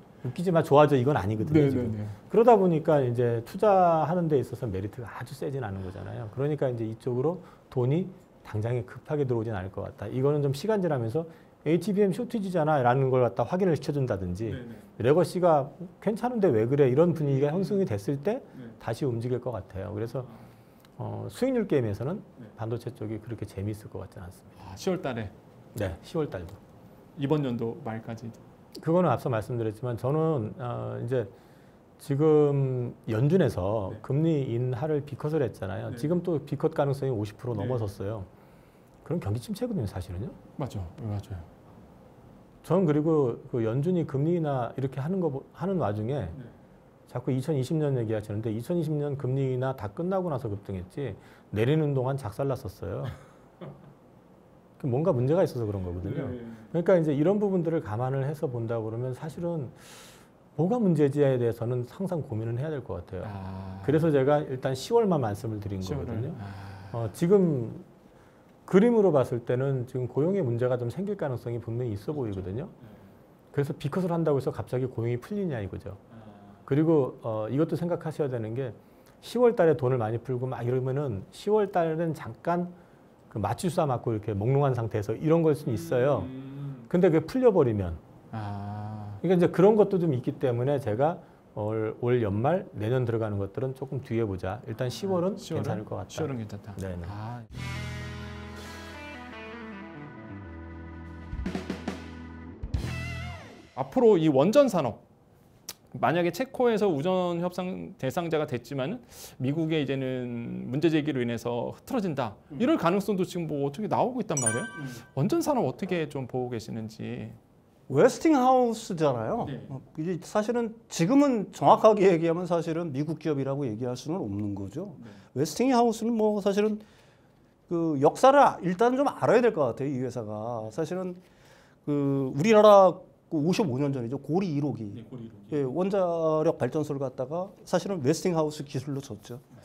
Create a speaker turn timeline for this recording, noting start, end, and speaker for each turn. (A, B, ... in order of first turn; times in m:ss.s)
0:00.2-0:20.3 A
0:01.4-0:02.1 B
0:14.5-0:14.8 B
0:17.2-0:17.8 B
0:21.0-0:24.5 A
0:24.6-0:25.3 B
0:25.7-0:26.6 A
0:27.2-0:28.4 B
0:28.8-0:31.3 A
0:32.0-0:38.3 A
0:35.9-0:36.1 B
0:37.5-0:37.9 B
0:39.0-0:40.4 A
0:40.6-0:41.5 B
0:42.6-0:46.4 A
0:47.1-0:53.2 A
0:54.8-1:03.3 A
0:56.0-0:56.7 B
1:03.2-1:04.0 B
1:03.8-1:06.4 A
1:05.8-1:07.0 B
1:06.9-1:07.8 A
1:08.7-1:12.7 A
1:13.5-1:16.0 A
1:16.6-1:22.8 A
1:23.3-1:28.0 A
1:25.6-1:26.8 B
1:28.3-1:29.2 B
1:29.2-1:37.1 A
1:34.9-1:37.5 B
1:43.7-1:45.0 B
1:45.9-1:57.4 B
1:57.9-2:06.8 C
1:59.4-1:59.8 B
2:07.7-2:11.2 C
2:11.8-2:19.4 C
2:14.9-2:15.6 B